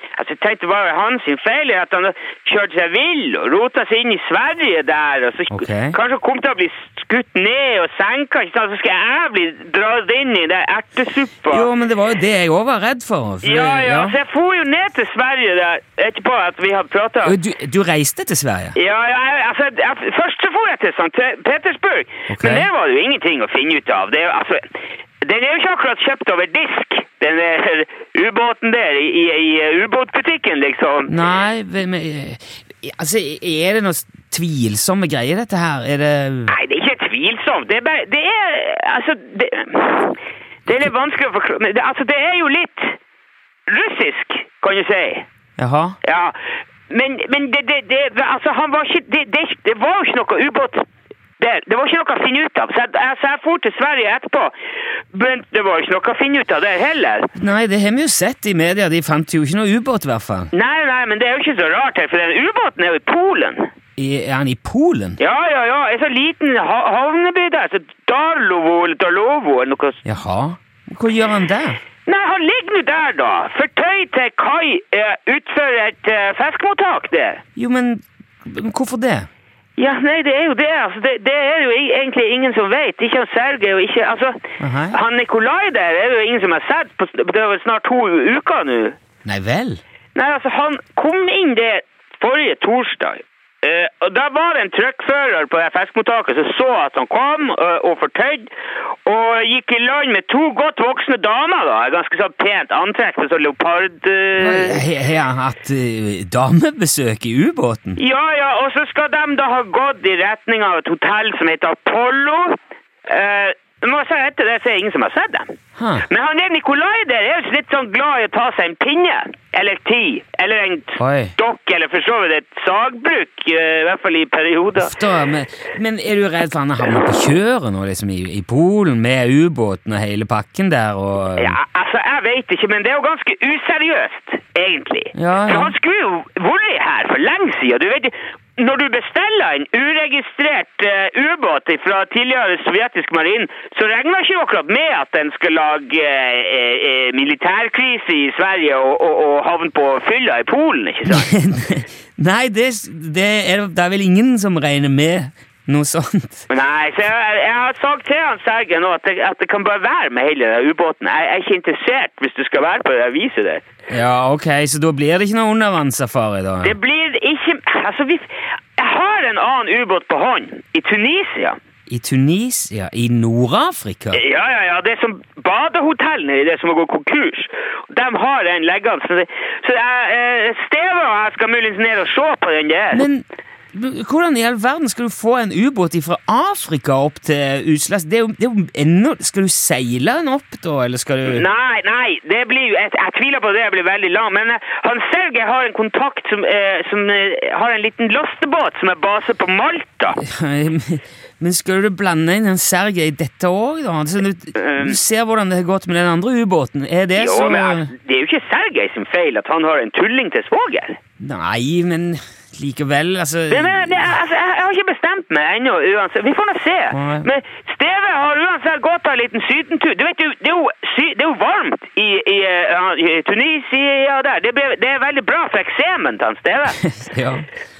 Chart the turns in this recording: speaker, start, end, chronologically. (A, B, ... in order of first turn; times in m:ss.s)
0:00.2-0:11.7 A
0:05.5-0:06.0 B
0:11.5-0:14.2 B
0:13.4-0:17.4 A
0:17.2-0:18.8 B
0:18.7-0:31.2 A
0:22.3-0:22.7 B
0:31.1-0:36.6 B
0:36.5-0:43.0 A
0:43.7-0:45.2 A
0:45.6-0:46.0 B
0:46.0-0:46.4 A
0:46.9-0:50.8 A
0:51.4-0:54.5 A
0:55.1-0:57.3 A
0:57.4-1:00.5 B
1:00.5-1:03.7 A
1:04.0-1:05.2 B
1:05.2-1:10.0 A
1:10.0-1:11.8 B
1:12.0-1:17.4 A
1:17.6-1:19.3 B
1:19.8-1:29.0 A
1:24.6-1:25.0 B
1:29.2-1:29.8 B
1:30.1-1:38.5 A
1:39.0-1:44.8 A
1:44.4-1:48.0 B
1:48.0-2:05.0 A
1:55.8-1:56.0 B
2:01.0-2:01.3 B
2:04.8-2:11.6 B
2:11.4-2:31.3 A
2:15.1-2:15.7 B
2:31.1-2:36.5 B
2:36.5-2:43.6 A
2:43.9-2:46.8 B
2:46.6-2:51.6 A
2:51.9-2:54.2 B
2:54.1-3:03.1 A
3:02.9-3:11.4 B
3:11.2-3:20.2 A
3:20.2-3:27.9 B
3:24.6-3:25.0 A
3:27.1-3:31.0 A
3:31.2-3:34.2 B
3:33.5-3:46.8 A
3:36.9-3:37.3 B
3:46.7-3:47.5 B